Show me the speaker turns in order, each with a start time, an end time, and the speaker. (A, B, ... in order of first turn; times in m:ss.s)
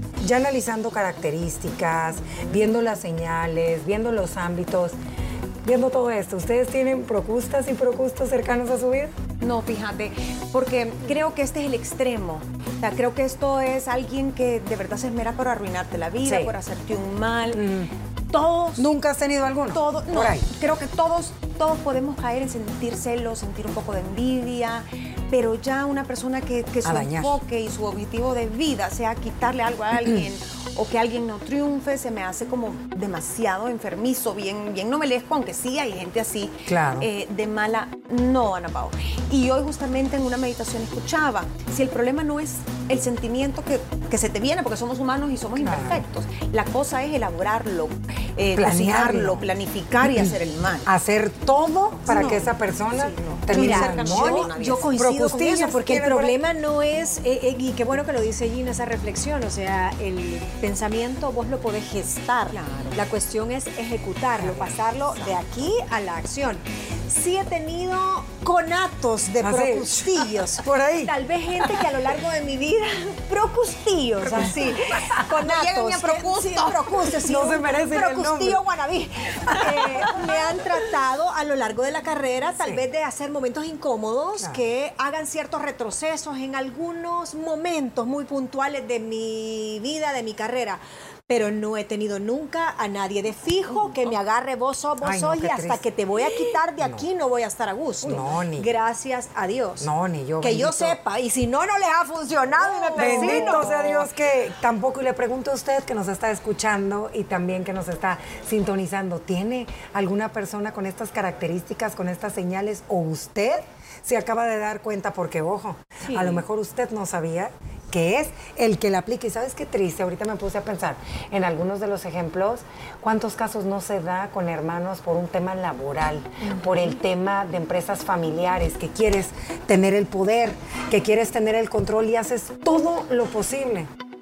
0:00.2-0:05.0 A
0:05.6-0:09.1 A
0:09.4-0:17.7 B
0:16.2-0:16.5 A
0:17.5-0:17.9 A
0:18.3-0:18.9 B
0:18.8-0:20.5 A
0:19.7-0:50.9 B
0:26.8-0:27.4 A
0:36.7-0:37.1 A
0:45.6-0:46.0 A
0:48.5-0:49.5 A
0:50.0-0:50.3 A
0:50.8-0:56.4 A
0:52.1-0:54.9 B
0:53.5-1:39.9 C
1:02.5-1:03.0 B
1:04.4-1:04.8 A
1:09.4-1:11.1 A
1:14.2-1:17.2 B
1:17.2-1:18.6 A
1:35.0-1:35.8 A
1:38.0-1:38.7 A
1:39.8-1:41.0 A
1:40.4-1:44.1 C
1:42.6-2:13.9 A
1:43.0-1:43.7 B
1:56.0-1:56.4 B